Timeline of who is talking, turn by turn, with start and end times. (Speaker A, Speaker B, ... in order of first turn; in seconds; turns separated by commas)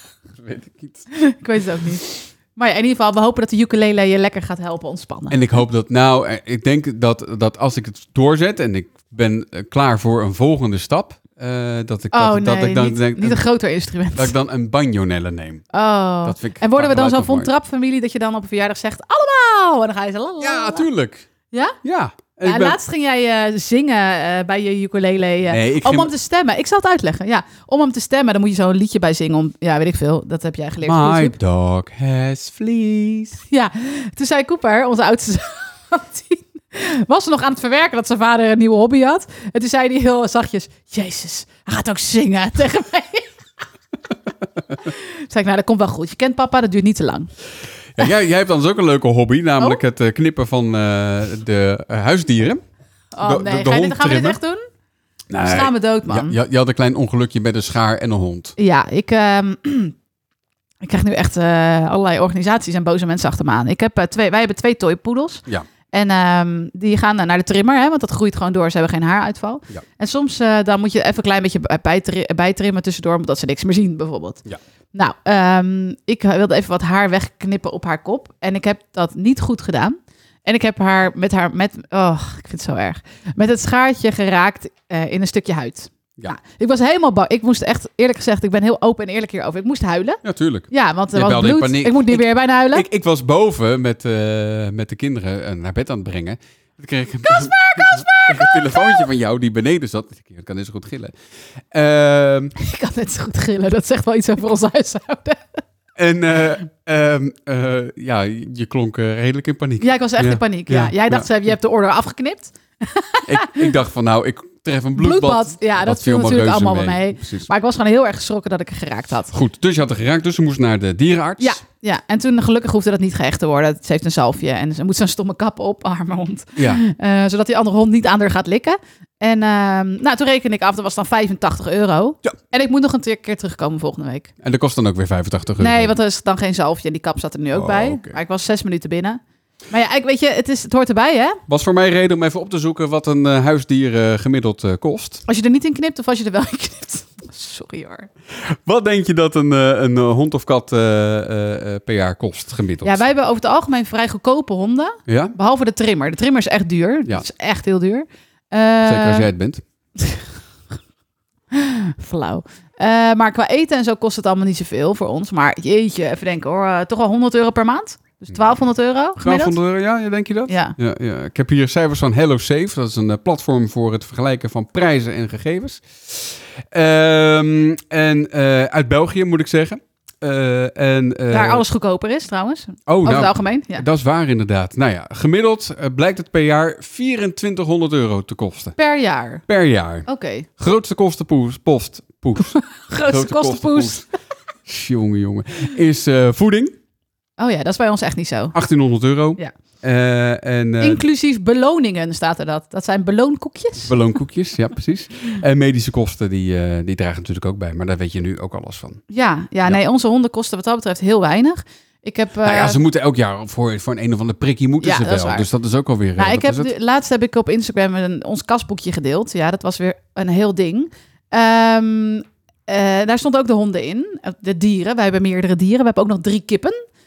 Speaker A: 0.4-1.1, Speaker B: 1.1-5.6, Speaker A: 5.3-13.4, Speaker B: 12.1-14.3, Speaker A: 14.2-15.6, Speaker B: 15.7-20.9, Speaker A: 16.2-17.5, Speaker A: 20.4-21.3, Speaker B: 21.5-21.8, Speaker A: 21.8-22.8, Speaker B: 22.4-31.3, Speaker A: 25.5-26.1, Speaker A: 30.8-33.4, Speaker B: 33.5-43.3, Speaker B: 44.8-47.3, Speaker A: 48.0-52.6, Speaker B: 53.1-54.6, Speaker A: 53.2-54.4, Speaker A: 55.3-58.5, Speaker B: 55.4-56.4, Speaker B: 58.6-60.0, Speaker B: 60.8-74.4, Speaker B: 74.9-92.8, Speaker A: 90.2-101.1, Speaker B: 97.2-99.1, Speaker A: 101.7-102.5, Speaker B: 102.6-105.6, Speaker A: 106.0-111.3, Speaker B: 109.8-113.7, Speaker A: 113.3-117.5, Speaker B: 115.0-119.3, Speaker A: 119.3-121.6, Speaker B: 121.4-134.3, Speaker A: 134.4-135.9, Speaker B: 135.6-141.4, Speaker A: 137.5-138.2, Speaker A: 141.5-145.2, Speaker B: 145.3-148.1, Speaker A: 148.4-153.0, Speaker B: 152.8-159.3, Speaker A: 155.1-155.3, Speaker A: 158.8-159.6, Speaker B: 161.5-169.6, Speaker A: 169.2-181.6, Speaker B: 170.5-170.8, Speaker B: 181.3-183.8, Speaker A: 182.9-188.8, Speaker B: 188.8-189.4, Speaker A: 189.5-190.1, Speaker B: 190.1-190.5, Speaker A: 190.6-194.1, Speaker B: 192.9-194.0, Speaker A: 194.7-196.8, Speaker B: 197.4-198.6, Speaker A: 198.5-201.0, Speaker B: 200.8-204.0, Speaker A: 203.8-209.0, Speaker B: 209.1-212.8, Speaker A: 212.4-216.7, Speaker B: 214.8-215.5, Speaker B: 216.2-226.8